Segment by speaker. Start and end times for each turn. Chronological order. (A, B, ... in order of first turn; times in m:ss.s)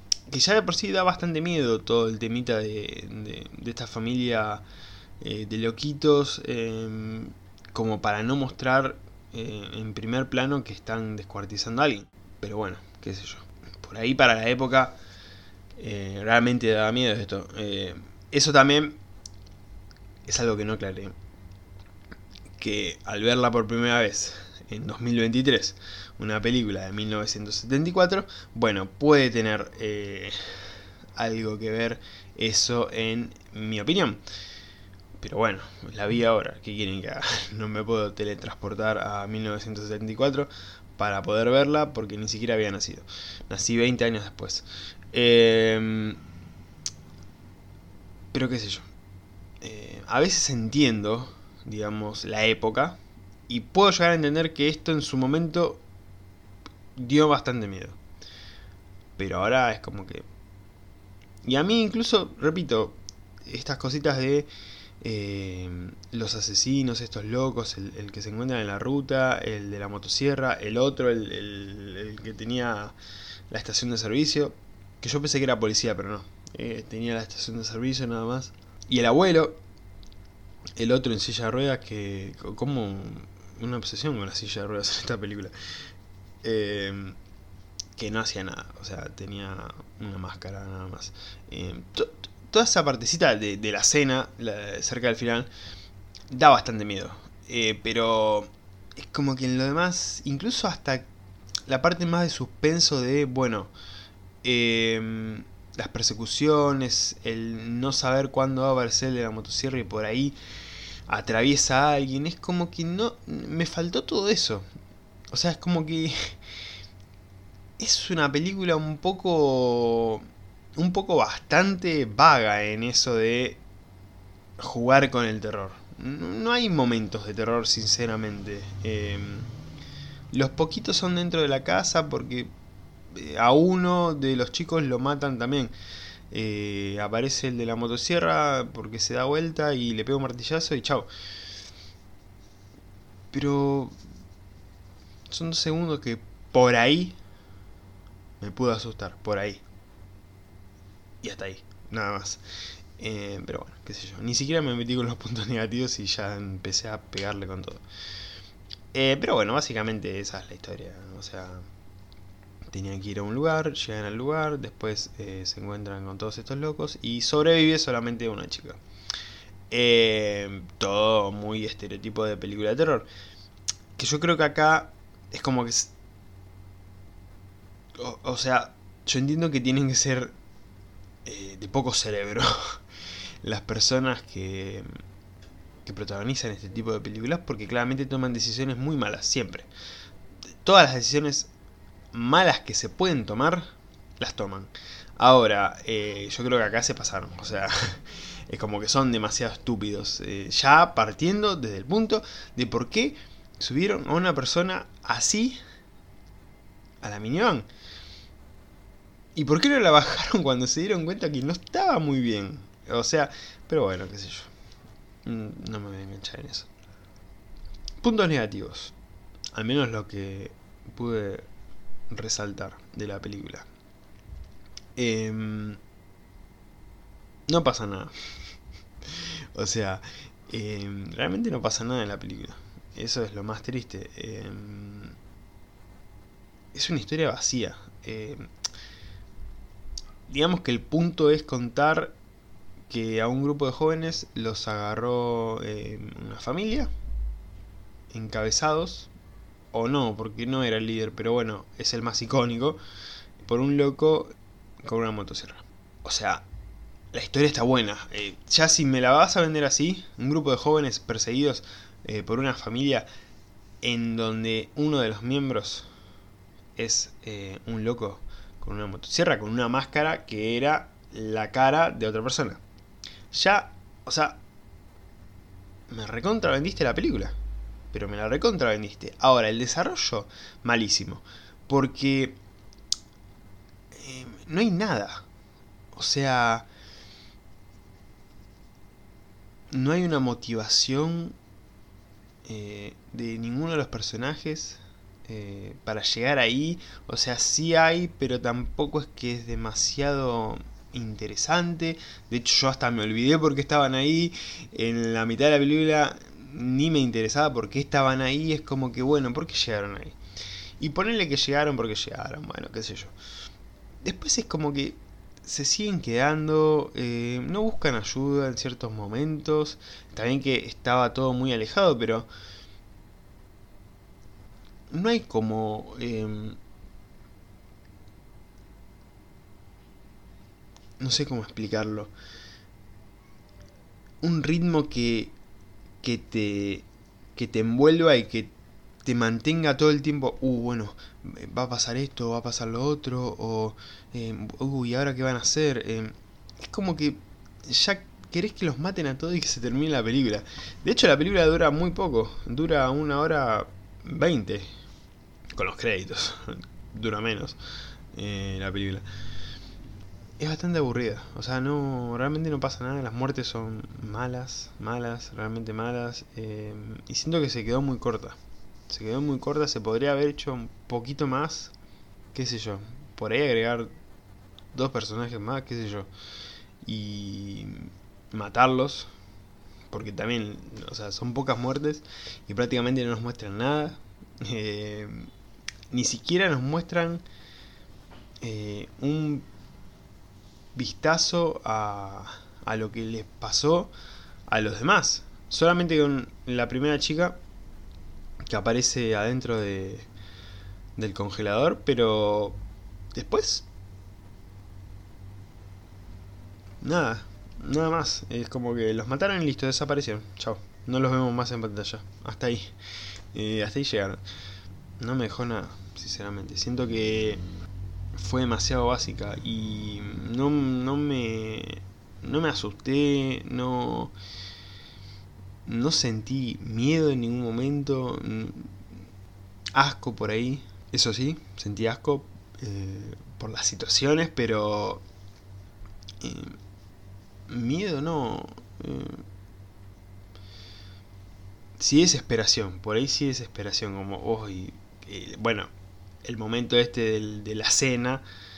0:00.3-0:04.6 A
0:05.2-0:15.0 A
0:15.8-0:19.0 A
0:20.3-0:21.2 A
0:22.6-0:30.6 A
0:31.2-0:34.2 A
0:35.2-0:46.2 A
0:48.3-0:48.9 A
0:49.6-0:55.8 A
0:57.0-0:58.0 A
0:59.2-1:00.3 A
1:01.4-1:04.5 A
1:05.0-1:13.0 A
1:13.5-1:19.6 A
1:20.8-1:25.5 A
1:26.4-1:27.2 A
1:28.0-1:35.5 A
1:36.3-1:41.1 A
1:41.7-1:43.7 A
1:44.4-1:50.4 A
1:51.1-1:54.7 A
1:55.3-1:56.4 A
1:57.8-2:03.6 A
2:04.6-2:09.5 A
2:10.3-2:12.5 A
2:13.1-2:15.7 A
2:16.3-2:21.1 A
2:23.3-2:24.0 A
2:25.3-2:27.2 A
2:28.4-2:29.6 A
2:31.2-2:32.4 A
2:33.0-2:37.8 A
2:38.9-2:41.7 A
2:42.7-2:48.8 A
2:49.7-2:53.1 A
2:54.0-2:55.9 A
2:58.0-3:00.3 A
3:01.2-3:02.8 A
3:03.4-3:04.9 A
3:05.8-3:09.7 A
3:10.6-3:11.5 A
3:12.1-3:13.7 A
3:14.2-3:25.6 A
3:27.0-3:27.7 A
3:29.4-3:34.5 A
3:35.2-3:36.7 A
3:38.0-3:39.0 A
3:39.5-3:41.5 A
3:42.1-3:43.7 A
3:45.0-3:45.8 A
3:47.5-3:48.1 A
3:49.1-3:55.2 A
3:56.7-3:58.5 A
4:00.3-4:02.2 A
4:02.9-4:06.9 A
4:08.1-4:09.1 A
4:09.7-4:12.8 A
4:13.4-4:16.5 A
4:17.1-4:23.1 A
4:23.8-4:25.9 A
4:26.8-4:32.6 A
4:33.3-4:34.4 A
4:35.9-4:37.4 A
4:37.9-4:42.4 A
4:43.9-4:45.2 A
4:45.9-4:46.7 A
4:49.7-4:51.4 A
4:52.4-5:10.2 A
5:10.8-5:13.1 A
5:14.0-5:22.3 A
5:24.9-5:26.6 A
5:31.0-5:32.1 A
5:34.2-5:35.4 A
5:36.0-5:54.7 A
5:55.6-5:57.6 A
5:58.1-5:59.0 A
6:00.4-6:08.4 A
6:08.9-6:11.7 A
6:12.3-6:13.9 A
6:14.7-6:16.1 A
6:16.8-6:19.1 A
6:19.9-6:25.3 A
6:25.9-6:27.2 A
6:28.4-6:29.5 A
6:30.8-6:33.9 A
6:34.5-6:37.4 A
6:38.4-6:40.1 A
6:41.0-6:42.6 A
6:43.2-6:43.7 A
6:46.8-6:52.7 A
6:53.3-6:54.2 A
6:55.0-6:57.4 A
6:58.2-7:04.2 A
7:05.7-7:08.8 A
7:09.7-7:15.0 A
7:16.2-7:16.6 A
7:17.5-7:19.2 A
7:21.8-7:25.7 A
7:26.2-7:28.2 A